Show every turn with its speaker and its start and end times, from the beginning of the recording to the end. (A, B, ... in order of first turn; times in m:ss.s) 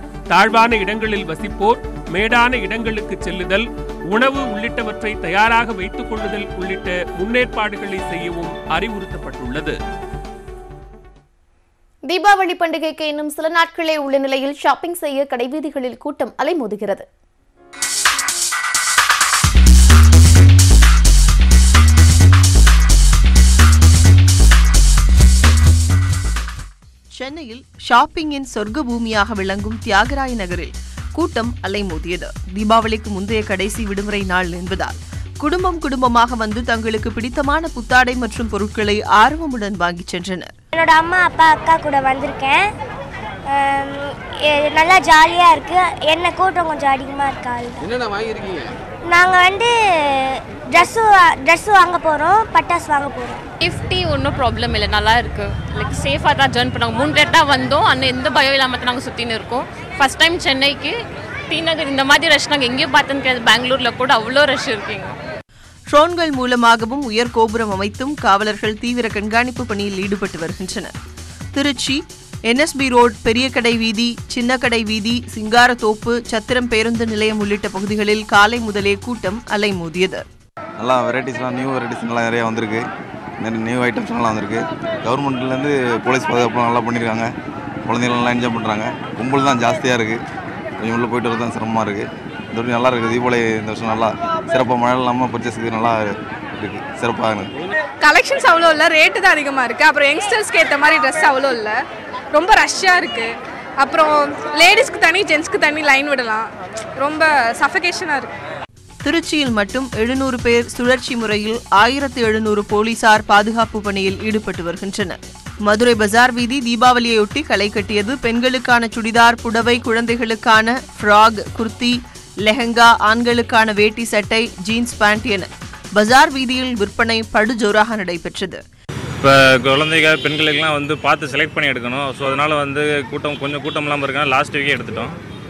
0:00.3-0:09.8 A
0:12.1-0:17.1 B
0:27.2-0:40.5 C
0:40.7-0:42.7 D
0:43.5-0:47.8 D
0:49.1-0:49.7 D
0:50.8-0:53.4 D
0:53.6-1:00.9 E
1:01.5-1:05.1 E
1:05.9-1:10.9 C
1:11.6-1:20.2 C
1:20.8-1:22.8 F
1:23.4-1:27.3 F
1:27.9-1:30.2 F
1:30.8-1:37.5 F
1:38.0-1:41.8 G
1:42.3-1:43.3 G
1:43.8-1:46.5 G
1:47.0-1:48.3 G
1:49.0-2:08.6 C
2:09.2-2:15.1 H